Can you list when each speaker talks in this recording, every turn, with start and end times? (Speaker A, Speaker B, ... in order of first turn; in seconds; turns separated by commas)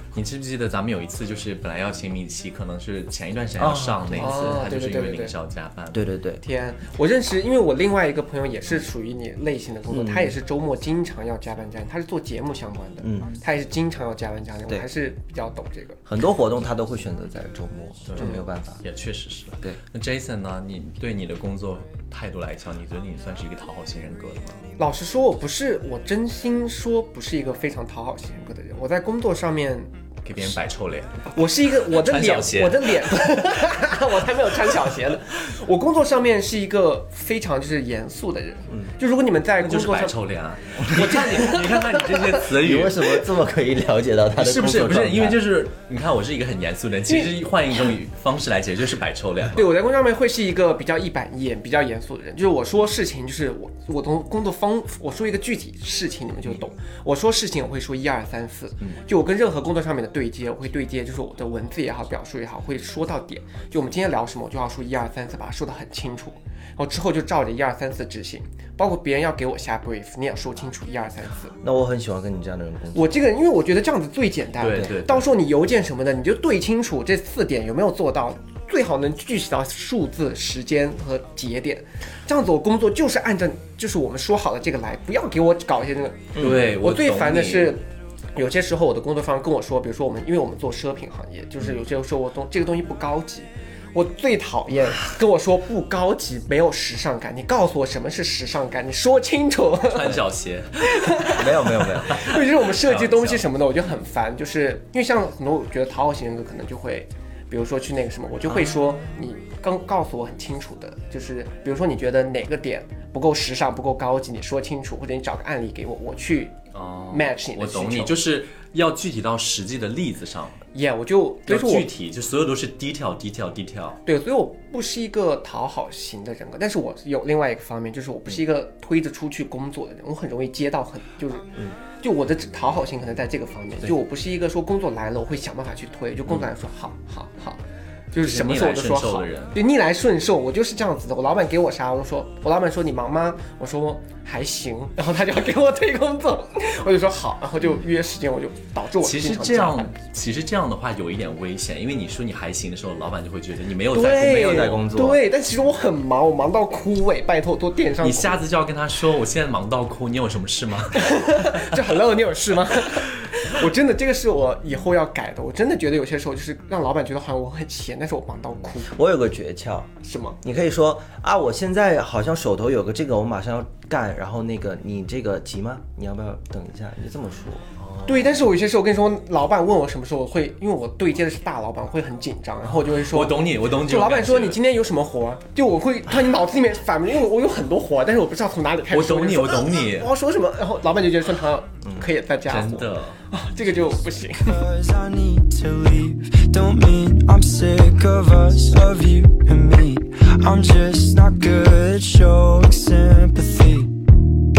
Speaker A: 0.1-6.0, Speaker B: 3.6-4.3, Speaker C: 4.1-5.3, Speaker B: 5.9-6.4, Speaker C: 6.4-16.0, Speaker B: 9.9-10.3, Speaker B: 13.0-13.4, Speaker B: 16.1-18.8, Speaker A: 18.1-24.6, Speaker C: 18.2-18.4, Speaker C: 24.8-29.9, Speaker A: 30.2-31.3, Speaker C: 31.3-40.2, Speaker A: 31.9-33.1, Speaker A: 39.6-43.2, Speaker C: 40.9-42.4, Speaker B: 42.5-45.4, Speaker A: 44.4-49.6, Speaker C: 47.1-47.3, Speaker C: 49.5-71.5, Speaker B: 71.6-73.2, Speaker C: 72.9-87.8, Speaker A: 74.6-75.3, Speaker B: 86.3-86.7, Speaker A: 86.3-87.8, Speaker C: 88.3-100.2, Speaker A: 99.8-103.5, Speaker C: 100.8-116.6, Speaker B: 101.2-102.3, Speaker A: 116.7-120.6, Speaker C: 117.1-118.2, Speaker C: 120.7-121.9, Speaker A: 121.5-124.0, Speaker C: 124.0-137.6, Speaker C: 138.1-149.9, Speaker A: 138.2-139.6, Speaker A: 149.0-154.8, Speaker C: 153.9-158.4, Speaker B: 154.3-155.2, Speaker A: 158.0-161.7, Speaker C: 160.9-169.0, Speaker B: 168.8-177.7, Speaker C: 170.0-170.4, Speaker A: 177.8-178.3, Speaker C: 178.1-194.6, Speaker A: 182.9-184.6, Speaker A: 188.9-190.1, Speaker B: 191.8-192.1, Speaker A: 192.4-193.2, Speaker D: 194.4-204.0